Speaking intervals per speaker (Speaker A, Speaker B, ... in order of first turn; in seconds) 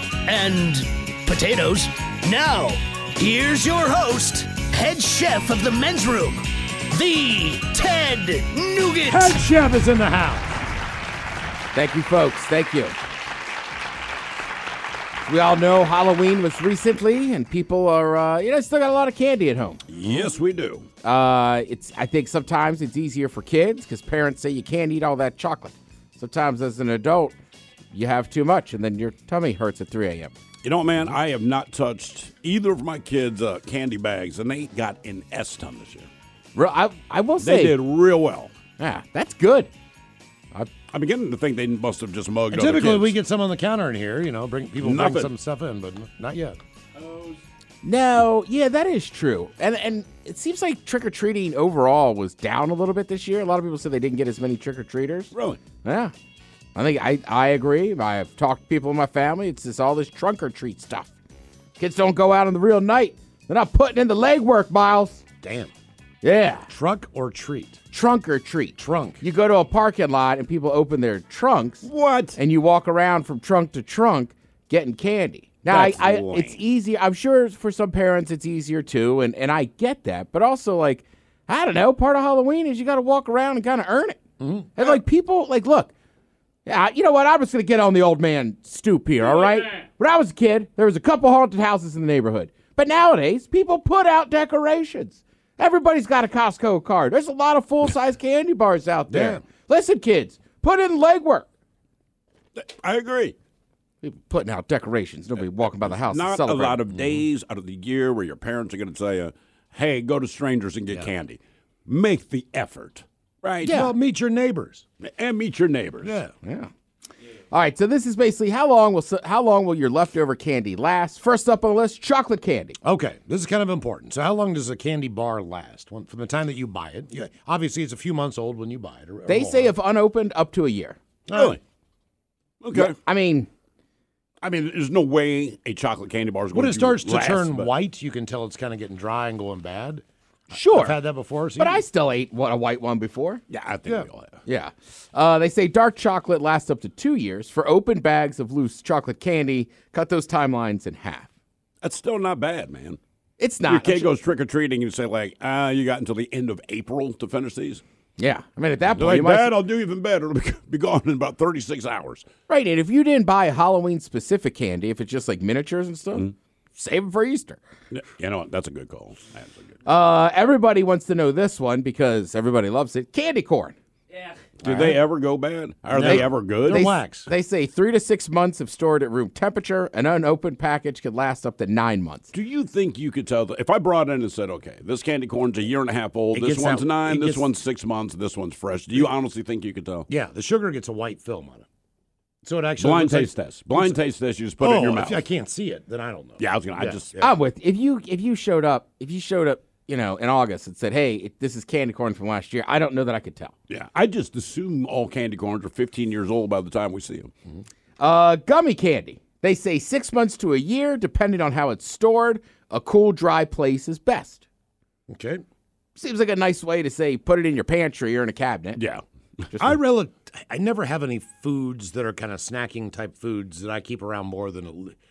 Speaker A: 0.2-9.4
Speaker B: 9.1-10.5, 42.5-46.6, 65.4-65.7, 66.7-67.8, 68.8-69.2, 84.4-85.0, 99.1-99.4, 106.9-107.2, 113.6-114.8, 116.0-116.3, 122.8-129.7, 131.3-131.6, 136.5-141.8, 174.6-175.0, 175.9-177.3, 186.3-187.5, 190.1-191.7, 192.4-194.0, 194.6-197.3, 215.1-215.4, 219.6-224.9
Speaker C: 11.7-12.9, 15.2-19.8, 21.0-27.3, 27.9-30.3, 36.5-37.8, 38.8-39.7, 47.8-55.3, 55.8-56.1, 56.7-61.1, 61.8-65.2, 66.2-66.7, 67.9-84.2, 84.8-85.9, 86.6-101.5, 104.0-106.8, 113.7-113.9, 116.4-116.7, 117.5-122.8, 129.3-131.0, 132.7-133.5, 140.5-140.9, 141.6-143.4, 144.4-151.3, 153.4-154.1, 158.2-159.5, 162.5-167.6, 169.8-173.7, 176.0-182.3, 197.2-203.5, 208.0-214.4, 216.0-218.8
Speaker D: 19.9-20.9, 30.6-36.1, 37.4-38.5, 40.9-43.2, 44.8-45.3, 47.0-47.4, 55.3-55.6, 71.8-72.4, 75.7-76.6, 102.5-103.3, 105.8-113.8, 115.0-116.2, 131.3-131.6, 132.6-132.9, 134.4-137.7, 143.5-144.4, 151.8-153.0, 153.7-157.8, 159.0-162.3, 167.9-169.8, 174.6-176.9, 182.3-190.1, 192.8-195.2, 196.4-197.1, 203.7-207.3, 218.8-219.0